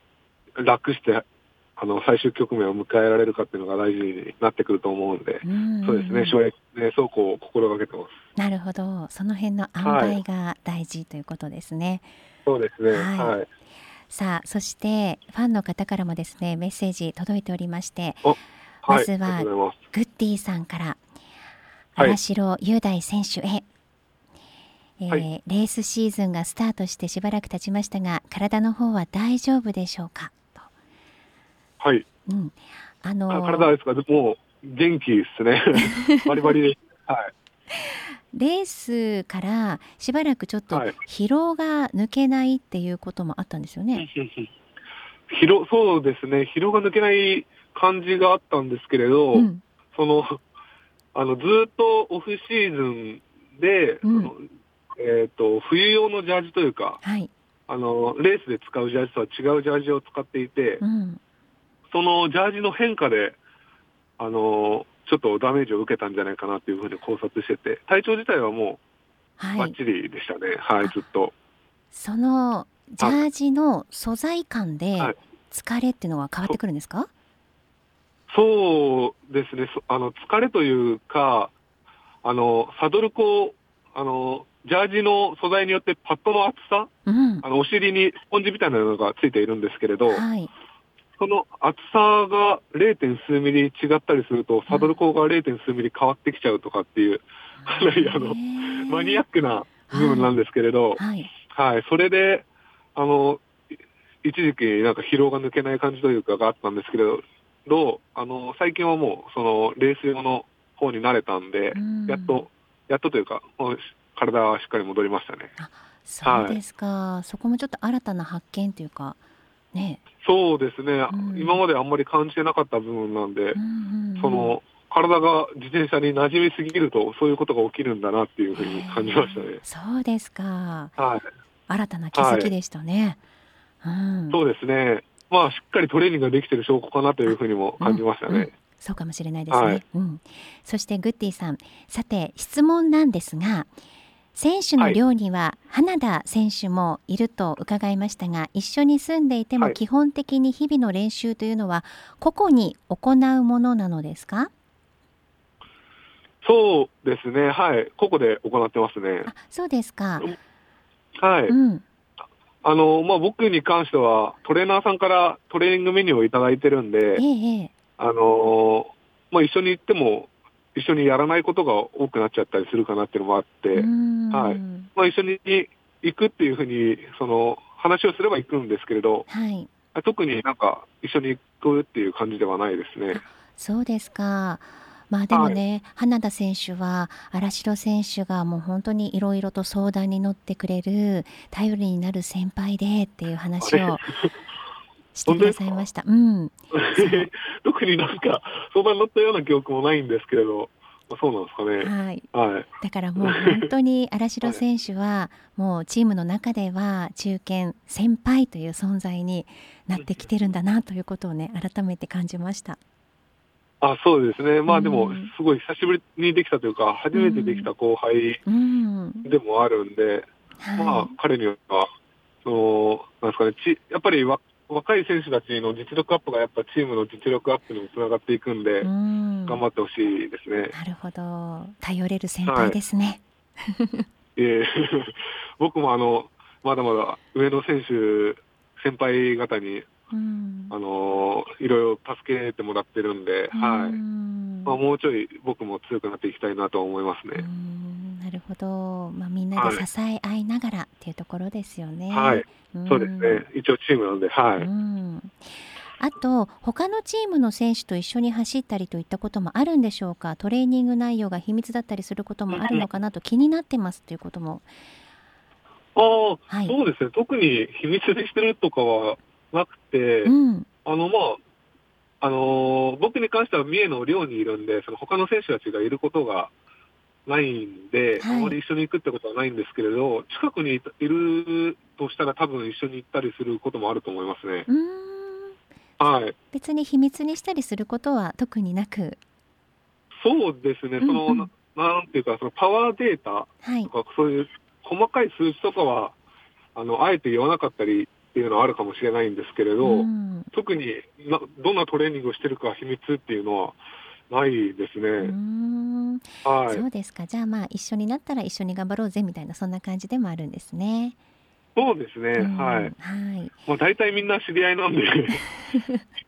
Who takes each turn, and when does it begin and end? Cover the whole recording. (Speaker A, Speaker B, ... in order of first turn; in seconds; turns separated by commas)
Speaker A: 0.6-1.2, Speaker A: 1.8-8.1, Speaker B: 5.4-6.4, Speaker B: 8.4-12.1, Speaker A: 9.8-10.2, Speaker A: 12.4-13.4, Speaker B: 12.9-13.4, Speaker B: 14.1-18.3, Speaker A: 18.2-19.8, Speaker B: 18.9-21.0, Speaker B: 21.9-23.6, Speaker B: 25.0-30.7, Speaker A: 31.8-32.0, Speaker B: 32.3-33.7, Speaker A: 33.3-37.3, Speaker B: 35.9-36.2, Speaker B: 37.7-44.0, Speaker A: 40.7-41.0, Speaker A: 44.0-44.5, Speaker A: 45.3-50.4, Speaker B: 49.3-49.6, Speaker A: 51.1-54.5, Speaker B: 54.0-54.3, Speaker A: 55.0-57.0, Speaker B: 57.0-57.3, Speaker A: 57.7-60.8, Speaker B: 60.8-61.2, Speaker A: 61.9-63.4, Speaker A: 64.2-68.8, Speaker B: 69.4-69.8, Speaker A: 69.6-71.3, Speaker B: 71.9-77.1, Speaker A: 73.0-73.2, Speaker A: 78.3-81.5, Speaker A: 82.2-86.9, Speaker B: 87.0-87.4, Speaker A: 87.4-90.2, Speaker B: 90.0-90.5, Speaker A: 91.2-103.4, Speaker B: 94.7-95.0, Speaker B: 97.7-99.2, Speaker B: 99.9-100.3, Speaker B: 101.0-101.3, Speaker A: 104.2-115.5, Speaker B: 111.7-112.4, Speaker B: 115.6-119.2, Speaker A: 116.2-116.6, Speaker B: 119.7-120.0, Speaker A: 120.2-123.6, Speaker B: 121.1-121.6, Speaker B: 123.5-124.6, Speaker A: 124.2-129.6, Speaker B: 128.6-130.9, Speaker A: 131.0-131.3, Speaker B: 131.7-133.2, Speaker A: 132.1-132.5, Speaker B: 133.8-134.4, Speaker A: 134.3-138.5, Speaker B: 137.2-143.7, Speaker A: 139.5-139.8, Speaker B: 144.3-154.5, Speaker A: 156.4-159.3, Speaker B: 159.3-160.3, Speaker A: 161.2-161.5, Speaker B: 161.5-161.8, Speaker A: 162.6-167.2, Speaker B: 167.2-167.7, Speaker A: 168.0-179.3, Speaker B: 173.7-174.9, Speaker B: 179.3-179.7, Speaker A: 179.9-183.2, Speaker B: 183.1-194.0, Speaker A: 185.3-185.6, Speaker A: 193.6-194.3, Speaker B: 195.1-197.3, Speaker A: 195.3-195.8, Speaker A: 196.7-202.7, Speaker B: 201.8-202.3, Speaker B: 202.8-212.8, Speaker A: 203.2-203.6, Speaker A: 209.9-210.2, Speaker A: 213.8-218.4, Speaker B: 214.7-215.3, Speaker B: 217.1-217.7, Speaker B: 218.5-219.2, Speaker A: 219.2-221.9, Speaker B: 220.6-221.1, Speaker A: 222.4-228.9, Speaker B: 228.8-229.6, Speaker A: 229.5-230.7, Speaker B: 230.7-234.0, Speaker A: 232.4-232.8, Speaker A: 234.3-239.9, Speaker B: 240.1-240.7, Speaker A: 240.7-244.0, Speaker B: 243.5-244.8, Speaker A: 244.7-247.4, Speaker B: 247.3-253.4, Speaker A: 249.6-249.8, Speaker A: 252.1-254.7, Speaker B: 254.6-264.7, Speaker A: 262.5-262.9, Speaker A: 265.9-271.4, Speaker B: 266.5-266.7, Speaker B: 270.2-270.7, Speaker A: 272.2-276.5, Speaker A: 277.2-284.7, Speaker B: 278.2-278.6, Speaker B: 284.7-285.5, Speaker A: 286.0-286.3, Speaker B: 286.5-289.2, Speaker A: 290.2-296.1, Speaker B: 291.0-291.5, Speaker B: 293.6-293.9, Speaker A: 296.7-303.8, Speaker B: 299.8-300.5, Speaker A: 304.3-305.3, Speaker B: 305.2-311.1, Speaker A: 306.4-306.8, Speaker A: 311.8-312.9, Speaker B: 312.4-313.5, Speaker A: 313.7-315.4, Speaker B: 315.6-316.0